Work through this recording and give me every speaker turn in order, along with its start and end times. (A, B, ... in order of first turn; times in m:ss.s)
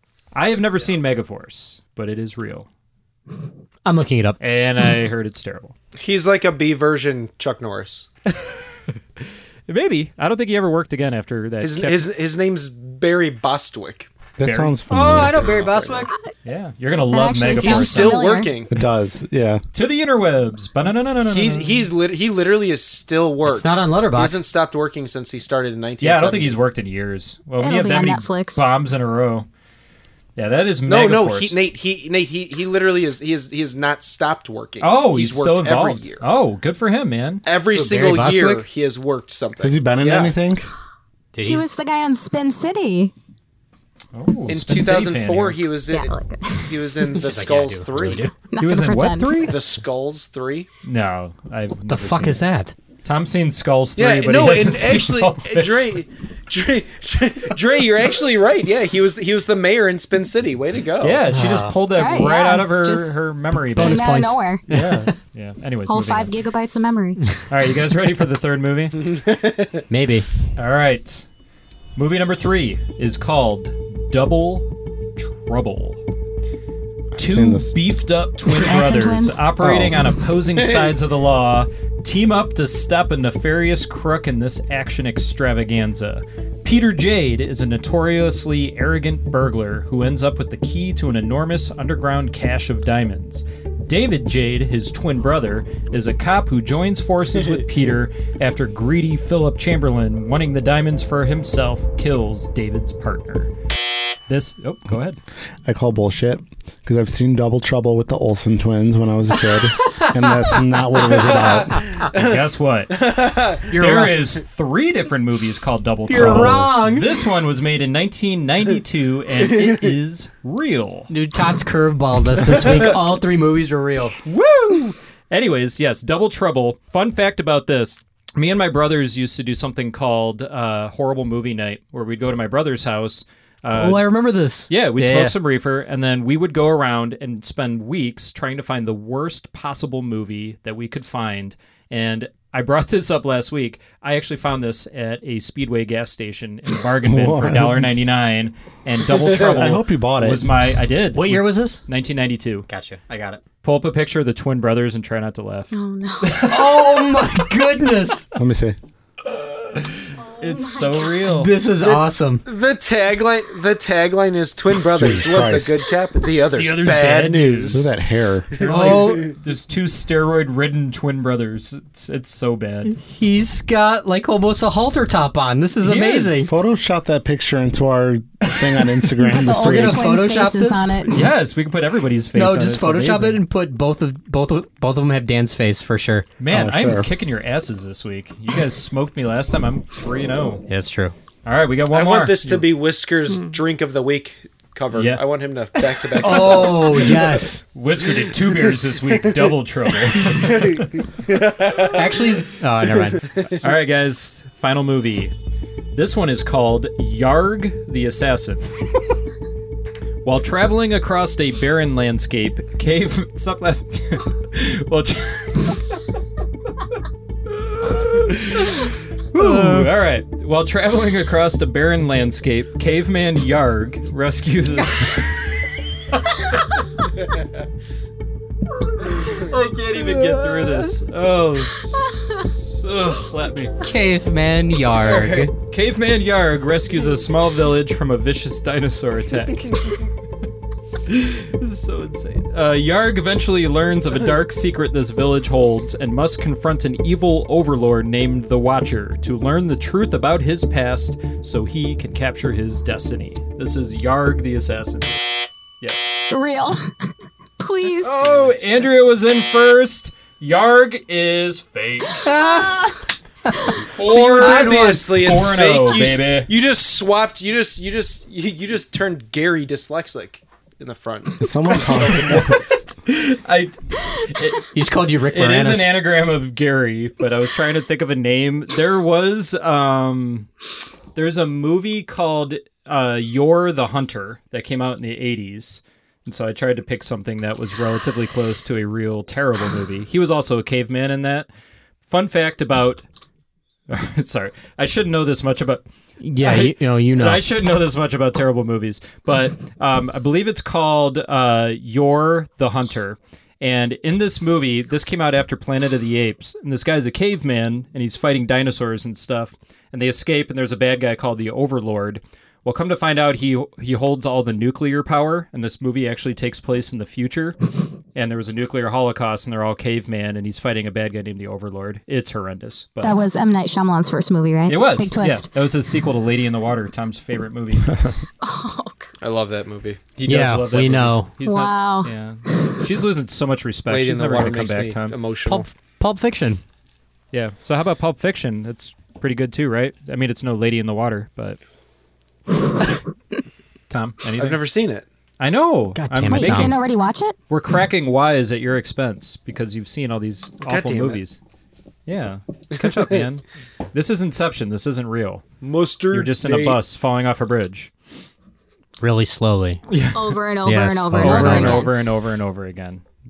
0:00.3-0:02.7 A
0:03.9-0:04.4 B
0:04.4-0:05.7 A
0:06.0-0:08.1 C
0:09.7-0:12.1 A
0:11.6-0:14.1 C
0:14.4-0:15.4 D
0:14.4-0:14.8 A
0:14.9-0:16.1 B
0:15.3-0:16.1 C
0:16.4-0:18.2 A
0:17.1-0:18.5 E
0:17.6-0:18.7 C
0:18.7-0:19.6 D
0:19.7-0:21.9 A
0:21.3-0:26.6 C
0:23.4-0:24.4 B
0:26.0-0:29.5 A
0:27.6-0:28.6 E
0:30.4-0:31.6 A
0:30.9-0:36.2 C
0:34.8-0:37.4 A
0:37.4-0:40.3 C
0:37.7-0:38.6 B
0:39.6-0:40.7 D
0:41.3-0:41.6 B
0:41.4-0:43.1 E
0:44.1-0:45.7 A
0:44.5-0:48.3 C
0:45.9-0:46.8 E
0:47.2-0:48.4 B
0:48.5-0:49.5 E
0:48.6-0:49.6 A
0:49.4-0:50.7 C
0:50.8-0:52.4 A
0:51.9-0:52.7 B
0:53.0-0:56.0 A
0:54.0-1:01.2 C
1:01.0-1:06.3 A
1:01.3-1:01.8 B
1:01.9-1:03.2 E
1:03.7-1:04.4 B
1:03.8-1:04.6 E
1:05.9-1:07.3 E
1:07.5-1:09.2 A
1:09.3-1:09.8 C
1:09.9-1:10.3 B
1:10.6-1:11.3 A
1:12.0-1:16.0 A
1:17.1-1:17.7 D
1:17.2-1:43.5 A
1:18.5-1:19.5 E
1:19.6-1:20.0 B
1:44.3-1:45.2 A
1:45.6-1:51.8 D
1:50.0-1:50.6 B
1:51.2-1:52.4 C
1:52.1-2:01.1 A
1:52.9-1:53.8 C
1:53.7-1:54.2 B
1:56.1-1:57.3 B
2:01.1-2:04.2 B
2:04.2-2:14.1 A
2:13.7-2:15.4 B
2:14.7-2:32.7 A
2:27.0-2:28.1 D
2:29.2-2:30.5 D
2:31.1-2:31.8 B
2:32.7-2:33.4 B
2:33.6-2:36.9 A
2:35.7-2:37.1 E
2:36.4-2:38.3 B
2:38.3-2:38.8 D
2:39.2-2:41.5 A
2:40.2-2:41.2 E
2:41.3-2:42.4 B
2:41.9-2:47.9 C
2:44.9-2:45.9 D
2:46.6-2:47.9 A
2:47.7-2:48.6 D
2:48.6-2:52.9 A
2:48.6-2:49.3 C
2:48.6-2:49.3 B
2:52.8-2:56.5 B
2:55.8-2:56.5 A
2:56.4-3:00.2 D
2:59.2-3:01.2 E
2:59.4-3:01.1 B
3:01.0-3:03.4 A
3:02.3-3:06.3 B
3:06.4-3:10.7 A
3:06.5-3:07.1 D
3:10.7-3:11.1 B
3:11.4-3:12.7 A
3:11.9-3:17.2 C
3:14.9-3:15.2 A
3:16.2-3:17.6 B
3:17.7-3:21.0 A
3:20.3-3:22.4 C
3:21.9-3:23.3 B
3:23.4-3:25.3 A
3:25.9-3:28.6 A
3:30.2-3:36.0 A
3:37.5-3:45.5 A
3:39.3-3:39.9 B
3:49.0-3:53.8 A
3:53.8-3:55.5 B
3:55.3-4:00.1 A
4:01.0-4:15.2 A
4:15.8-4:16.1 A
4:16.3-4:16.8 E
4:17.6-4:18.4 E
4:18.0-4:22.2 A
4:22.2-4:23.8 E
4:22.2-4:22.8 B
4:23.8-4:26.5 A
4:24.0-4:32.6 C
4:31.4-4:32.6 D
4:31.7-4:34.7 A
4:34.7-4:35.9 B
4:35.3-4:40.5 A
4:41.1-4:51.5 A
4:52.0-4:53.0 A
4:53.9-4:55.8 A
4:56.2-4:57.4 B
4:56.4-5:17.6 A
5:18.1-5:23.2 A
5:23.0-5:25.5 E
5:24.7-5:28.1 A
5:28.4-5:29.1 E
5:29.2-5:30.0 C
5:30.2-5:35.2 A
5:30.2-5:31.4 B
5:31.4-5:32.1 E
5:33.9-5:35.6 C
5:35.5-5:36.6 B
5:37.3-5:41.6 A
5:43.9-5:44.6 A
5:44.4-5:45.0 C
5:45.4-5:46.7 A
5:45.9-5:46.8 B
5:46.3-5:47.3 E
5:47.5-5:51.4 A
5:50.7-5:51.2 C
5:52.1-5:55.4 A
5:55.6-5:56.8 C
5:56.1-5:57.9 A
5:59.0-5:59.8 B
5:59.9-6:00.4 A
6:00.1-6:01.9 E
6:00.6-6:01.9 B
6:01.1-6:03.0 A